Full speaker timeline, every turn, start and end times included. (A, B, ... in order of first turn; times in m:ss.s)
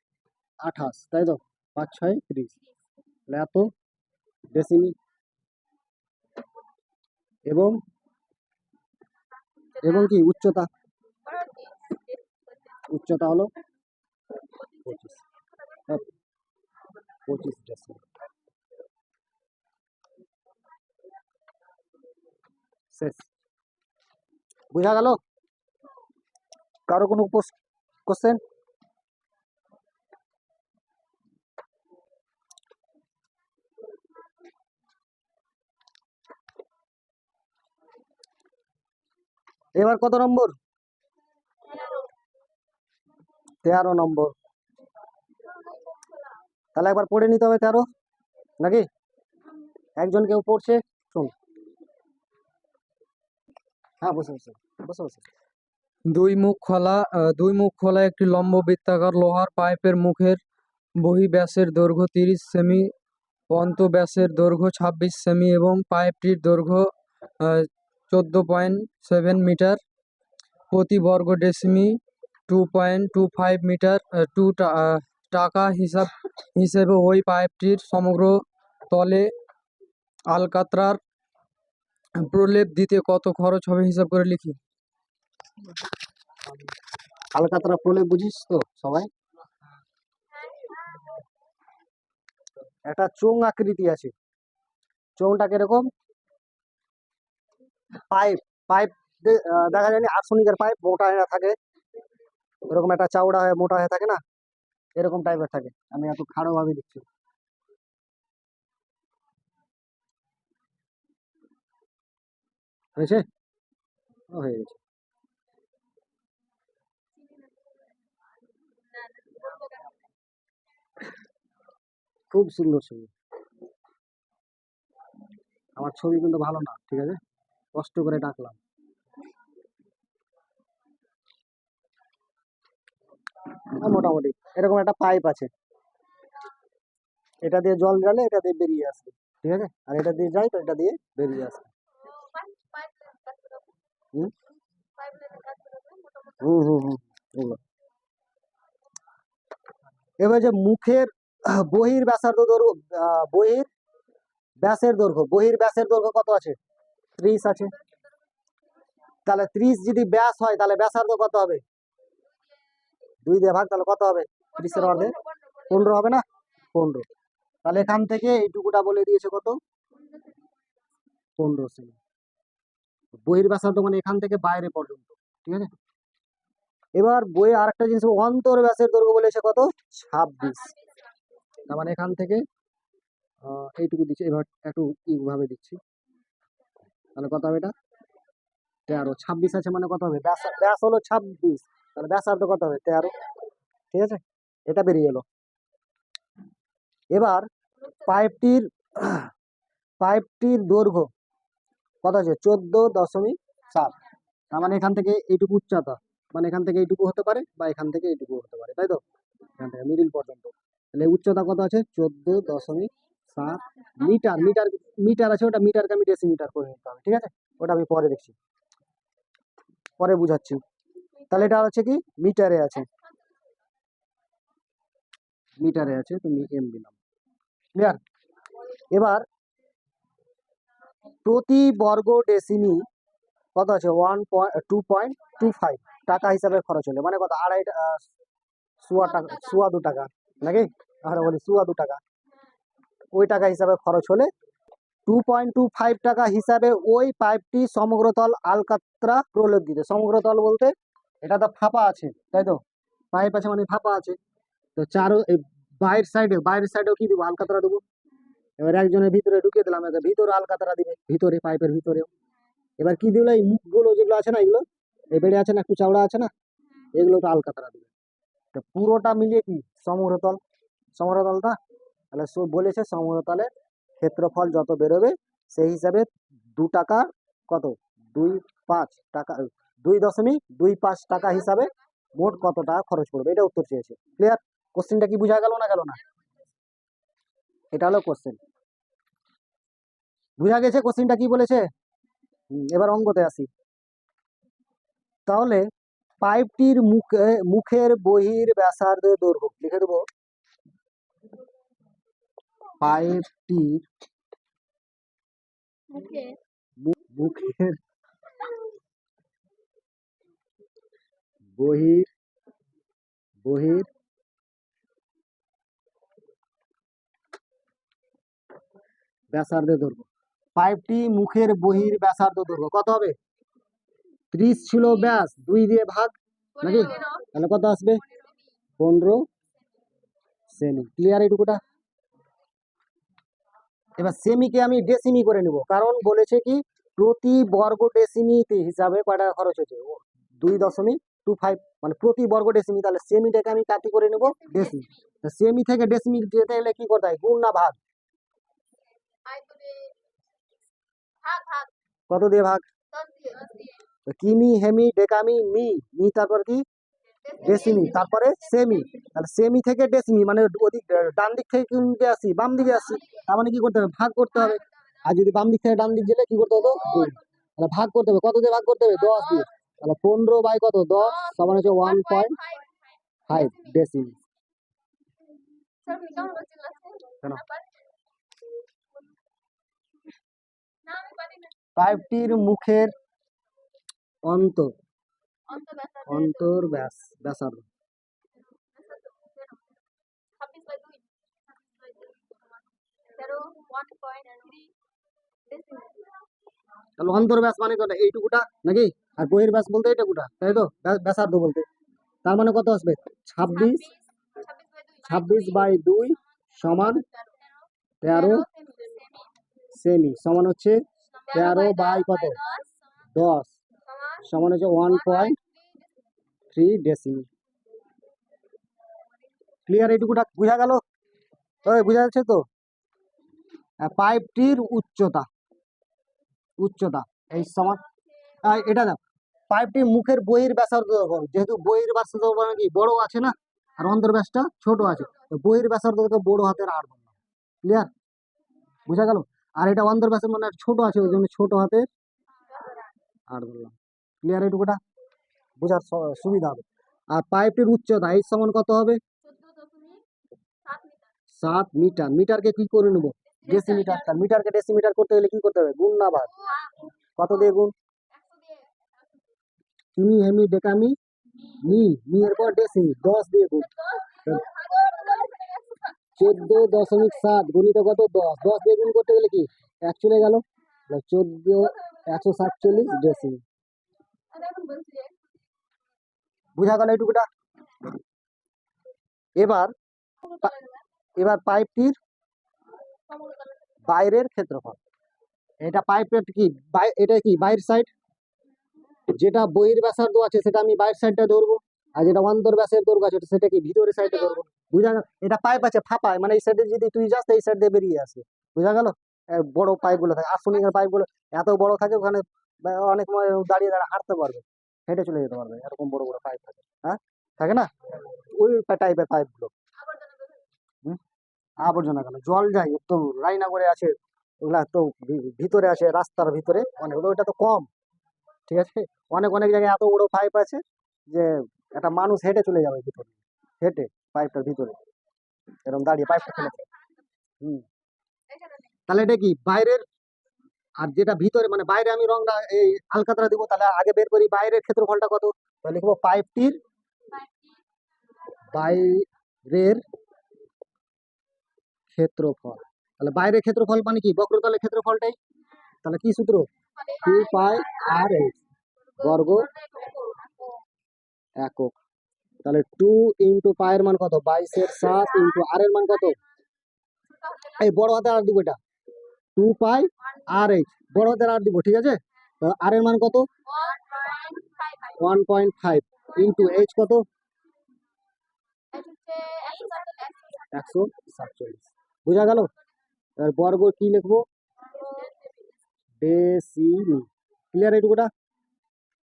0:00.6-0:02.5 A
0:03.3-0:03.7 A
0:04.5-0:04.9 A
0:07.5-0:07.8 A
0:09.7-0:10.1 B
0:09.8-0:10.7 A
0:11.2-0:12.9 B
0:12.9-0:13.5 A
0:14.5-0:16.0 B
0:14.8-0:15.2 A
0:17.3-0:18.0 A
0:22.9-0:23.2 A
0:24.7-0:25.2 A
0:26.9-0:27.6 A
0:28.1-0:28.4 A
0:39.7-0:40.5 A
0:41.6-0:42.0 B
0:43.6-0:44.3 A
0:45.6-0:46.1 B
0:46.7-0:47.9 A
0:48.6-0:48.9 A
0:50.0-0:51.3 A
0:54.0-0:55.3 A
0:56.1-1:00.4 C
1:01.0-1:02.9 C
1:03.5-1:09.8 C
1:10.7-1:19.3 C
1:20.3-1:21.0 C
1:22.2-1:24.6 C
1:27.3-1:29.1 A
1:30.3-1:31.2 B
1:32.8-1:34.1 A
1:35.2-1:35.9 A
1:38.1-1:41.6 A
1:42.7-1:44.2 A
1:45.0-1:47.0 A
1:53.0-1:53.2 A
1:54.3-1:54.8 A
1:58.8-2:00.0 B
2:02.3-2:03.1 A
2:05.8-2:07.2 A
2:07.7-2:08.6 A
2:13.7-2:15.5 A
2:17.4-2:21.7 A
2:21.9-2:23.8 B
2:24.9-2:26.8 B
2:26.4-2:27.6 A
2:30.2-2:33.7 A
2:34.6-2:36.6 A
2:37.2-2:37.7 A
2:39.2-2:41.6 A
2:43.2-2:45.1 A
2:44.5-2:46.0 B
2:45.7-2:47.0 A
2:47.6-2:49.6 A
2:49.9-2:50.7 B
2:51.4-2:52.0 A
2:53.2-2:55.7 A
2:57.0-3:00.7 A
3:00.4-3:01.2 B
3:01.7-3:02.4 A
3:03.4-3:05.8 A
3:07.1-3:07.7 A
3:08.9-3:13.2 A
3:13.9-3:15.2 A
3:17.1-3:17.5 A
3:18.0-3:19.3 A
3:20.0-3:21.1 A
3:22.0-3:24.0 A
3:23.7-3:24.0 B
3:24.5-3:29.0 A
3:29.6-3:38.3 A
3:32.6-3:32.9 B
3:33.5-3:34.6 B
3:40.0-3:40.6 A
3:41.3-3:42.9 A
3:45.6-3:47.0 A
3:48.9-3:49.2 A
3:51.2-3:52.8 A
3:53.5-3:58.0 A
3:58.8-4:02.0 A
3:59.1-3:59.6 B
4:03.1-4:04.3 A
4:05.1-4:12.6 A
4:13.1-4:14.2 A
4:14.8-4:17.8 A
4:18.6-4:22.1 A
4:22.8-4:26.3 A
4:26.9-4:27.9 A
4:28.5-4:30.4 A
4:31.0-4:31.6 A
4:32.1-4:46.0 A
4:41.2-4:41.8 B
4:47.7-4:48.4 A
4:50.4-4:51.7 A
4:52.5-4:53.5 A
4:55.3-4:55.7 A
4:56.2-5:00.0 A
5:02.8-5:03.8 A
5:05.9-5:06.4 B
5:06.8-5:07.8 A
5:11.6-5:12.1 A
5:13.4-5:13.9 A
5:19.3-5:23.2 A
5:24.3-5:28.0 A
5:26.6-5:27.3 B
5:28.0-5:28.4 B
5:28.8-5:29.3 A
5:30.5-5:31.6 A
5:34.0-5:47.8 A
5:44.3-5:45.1 B
5:49.2-5:50.0 B
5:51.2-5:51.7 B
5:52.1-5:52.6 A
5:52.9-5:53.8 B
5:54.0-5:56.6 A
5:57.2-5:58.8 B
5:57.4-6:12.4 A
6:02.8-6:03.2 B
6:06.8-6:07.2 B
6:09.0-6:09.4 B
6:11.0-6:14.2 B
6:13.3-6:14.2 A
6:15.8-6:17.9 B
6:20.8-6:21.6 B
6:21.8-6:22.9 A
6:24.2-6:24.7 A
6:25.5-6:26.7 B
6:26.1-6:27.6 A
6:28.6-6:29.7 B
6:30.4-6:34.7 B
6:35.5-6:36.1 B
6:37.0-6:41.6 A
6:42.2-6:43.9 A
6:43.4-6:45.8 B
6:45.0-6:47.0 A
6:47.1-6:49.3 B
6:48.0-6:48.5 A
6:49.7-6:52.4 A
6:51.1-6:52.7 B
6:53.1-6:53.6 A
6:53.8-6:54.2 B
6:54.2-6:55.4 A
6:54.8-6:55.9 B
6:56.5-6:57.3 A
6:59.7-7:00.8 A
7:01.6-7:02.5 A
7:03.8-7:05.3 A
7:06.6-7:07.8 A
7:08.4-7:17.9 A
7:14.8-7:15.3 B
7:18.8-7:21.9 A
7:22.5-7:22.9 B
7:23.3-7:24.8 A
7:25.6-7:29.0 A
7:29.2-7:30.0 B
7:30.6-7:31.1 B
7:31.4-7:36.3 A
7:33.3-7:34.1 B
7:36.3-7:36.9 B
7:37.2-7:37.7 A
7:38.1-7:38.7 B
7:40.0-7:41.0 A
7:41.6-7:43.7 A
7:43.6-7:47.2 B
7:46.2-7:53.4 A
7:51.8-7:53.0 B
7:54.3-7:55.3 B
7:56.6-7:57.3 A
7:59.4-7:59.7 A
8:00.2-8:00.8 B
8:01.2-8:02.0 A
8:03.1-8:03.8 B
8:03.8-8:04.8 A
8:05.6-8:07.9 A
8:09.1-8:29.5 A
8:29.8-8:30.4 B
8:31.6-8:37.7 A
8:38.5-8:44.8 A
8:45.6-8:46.6 A
8:46.0-8:47.1 B
8:48.3-8:48.7 B
8:48.9-8:49.8 A
8:50.8-8:56.6 A
8:57.1-8:57.6 B
8:58.5-8:59.8 A
9:01.9-9:05.2 A
9:05.8-9:06.5 A
9:06.8-9:08.3 B
9:07.0-9:08.3 A
9:08.9-9:10.6 B
9:09.0-9:09.5 A
9:11.4-9:11.7 A
9:12.4-9:16.2 A
9:15.1-9:15.4 B
9:17.0-9:17.7 B
9:17.6-9:18.6 A
9:19.4-9:23.3 A
9:23.4-9:25.1 B
9:25.0-9:27.0 A
9:26.1-9:26.6 B
9:28.7-9:30.8 B
9:30.5-9:32.5 A
9:33.2-9:34.2 A
9:34.6-9:35.5 B
9:36.0-9:38.1 A